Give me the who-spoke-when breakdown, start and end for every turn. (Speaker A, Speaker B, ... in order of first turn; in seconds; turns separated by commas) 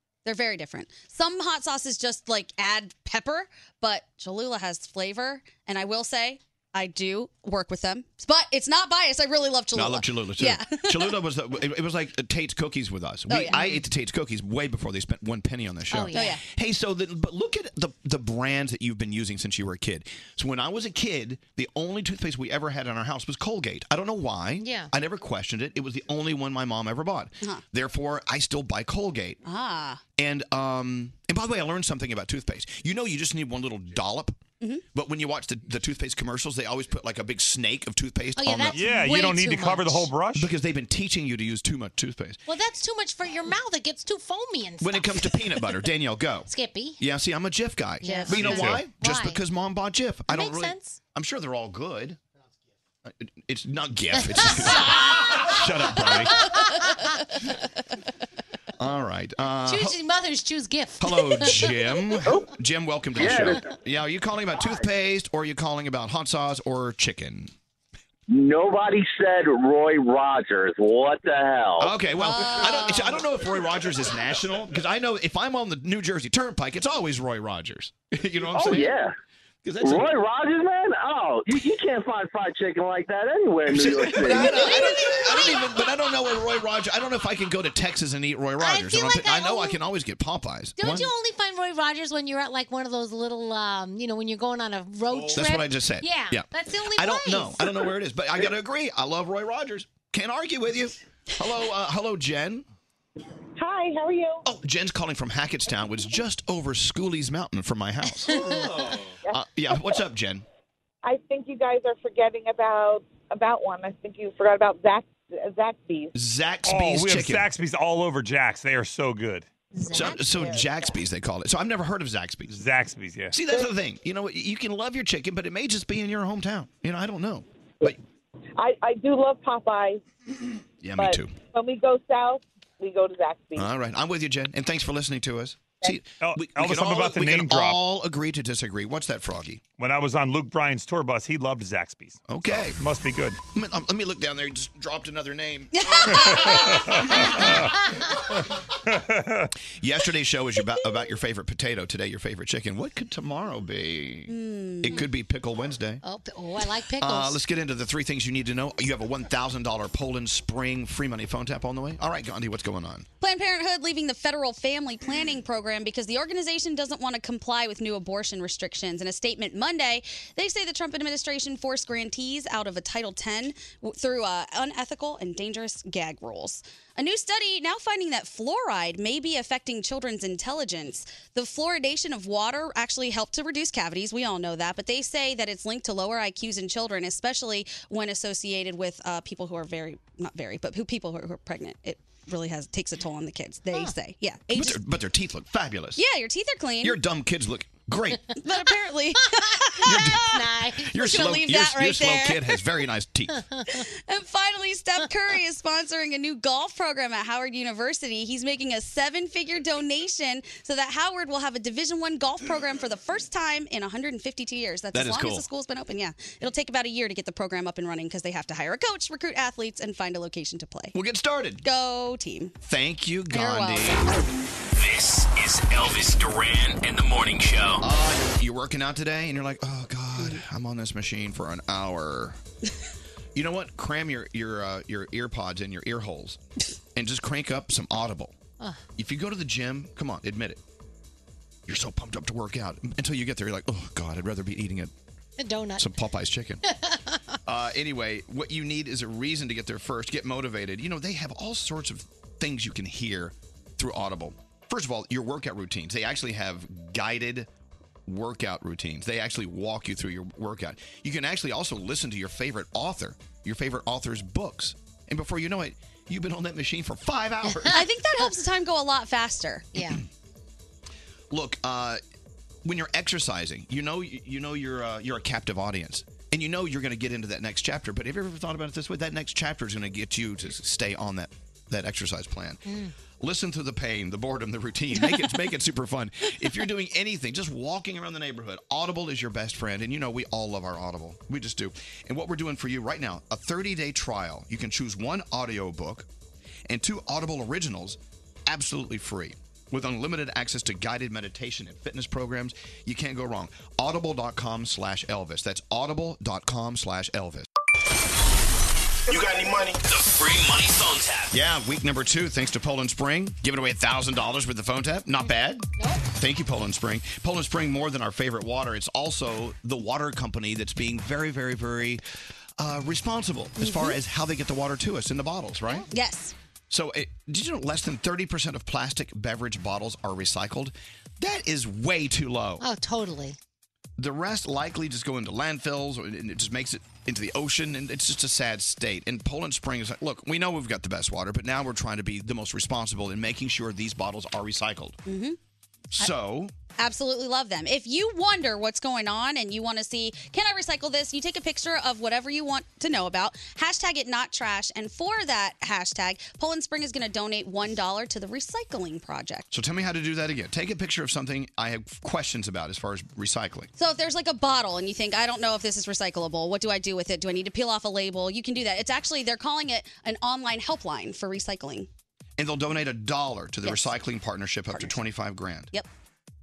Speaker A: 0.2-11.2, Speaker B: 9.8-29.4, Speaker A: 13.3-13.8, Speaker C: 15.9-16.4, Speaker A: 16.1-16.4, Speaker C: 24.6-24.9, Speaker A: 29.4-30.0, Speaker B: 30.2-34.4, Speaker B: 34.9-38.9, Speaker C: 38.4-40.1, Speaker D: 38.7-40.5, Speaker B: 40.3-42.4, Speaker C: 42.5-46.0, Speaker B: 44.8-52.2, Speaker C: 46.5-47.0, Speaker C: 48.0-49.4, Speaker A: 48.0-48.5, Speaker D: 48.4-48.8, Speaker C: 50.3-51.0, Speaker B: 53.0-56.5, Speaker C: 54.2-54.9, Speaker C: 56.2-57.2, Speaker B: 58.8-60.0, Speaker C: 59.6-62.3, Speaker B: 61.0-67.5, Speaker E: 63.2-63.5, Speaker E: 68.3-71.9, Speaker B: 71.8-78.9, Speaker A: 72.2-73.2, Speaker E: 78.5-79.1, Speaker B: 79.6-80.2, Speaker E: 79.8-84.6, Speaker B: 83.7-91.1, Speaker C: 84.3-86.2, Speaker C: 88.6-89.8, Speaker C: 90.8-98.0, Speaker B: 95.1-102.6, Speaker F: 103.6-104.4, Speaker B: 104.4-108.5, Speaker C: 108.1-108.9, Speaker B: 109.3-110.4, Speaker F: 111.0-116.1, Speaker B: 116.1-117.5, Speaker D: 116.7-119.5, Speaker C: 119.8-120.2, Speaker B: 119.9-122.6, Speaker F: 120.4-120.8, Speaker D: 122.5-123.4, Speaker B: 123.3-128.0, Speaker F: 128.6-130.0, Speaker B: 130.8-131.4, Speaker F: 131.0-133.7, Speaker B: 133.6-139.6, Speaker D: 136.2-137.8, Speaker D: 139.8-143.4, Speaker B: 142.3-142.8, Speaker B: 143.5-146.6, Speaker A: 145.7-146.6, Speaker D: 146.2-147.7, Speaker B: 147.1-147.7, Speaker D: 148.8-149.5, Speaker B: 149.8-156.0, Speaker A: 154.3-155.1, Speaker C: 156.0-157.4, Speaker B: 157.0-163.1, Speaker A: 163.2-194.8, Speaker B: 194.5-196.0, Speaker A: 196.0-197.0, Speaker B: 196.8-198.2, Speaker A: 198.4-200.4, Speaker C: 199.4-201.4, Speaker B: 199.8-203.4, Speaker A: 201.0-202.5, Speaker C: 203.4-203.6, Speaker A: 203.7-220.9, Speaker B: 214.9-215.4, Speaker B: 220.9-221.6, Speaker A: 221.6-222.6, Speaker B: 222.6-224.1, Speaker A: 223.3-224.0, Speaker G: 224.8-227.8, Speaker B: 227.8-232.4, Speaker B: 233.3-236.4, Speaker B: 236.9-238.3, Speaker B: 239.0-240.6, Speaker B: 241.7-244.9, Speaker C: 245.4-245.9, Speaker B: 245.8-246.6, Speaker C: 246.7-247.2, Speaker B: 247.5-257.5, Speaker B: 258.1-267.8, Speaker C: 267.4-268.3, Speaker A: 267.7-269.8, Speaker C: 269.8-270.0, Speaker B: 271.3-272.0, Speaker B: 272.6-282.6, Speaker C: 282.6-282.9, Speaker B: 283.1-296.1, Speaker B: 296.7-307.5, Speaker G: 309.1-311.4, Speaker B: 311.3-315.7, Speaker C: 315.3-316.0, Speaker B: 316.2-322.0, Speaker B: 322.6-325.9, Speaker C: 323.6-324.0, Speaker A: 325.9-326.3, Speaker B: 326.7-332.6, Speaker C: 332.6-333.4, Speaker B: 334.0-345.0, Speaker A: 345.1-345.4, Speaker B: 345.9-346.5, Speaker A: 346.8-359.5, Speaker B: 359.5-363.7, Speaker A: 363.8-371.9, Speaker B: 372.4-375.7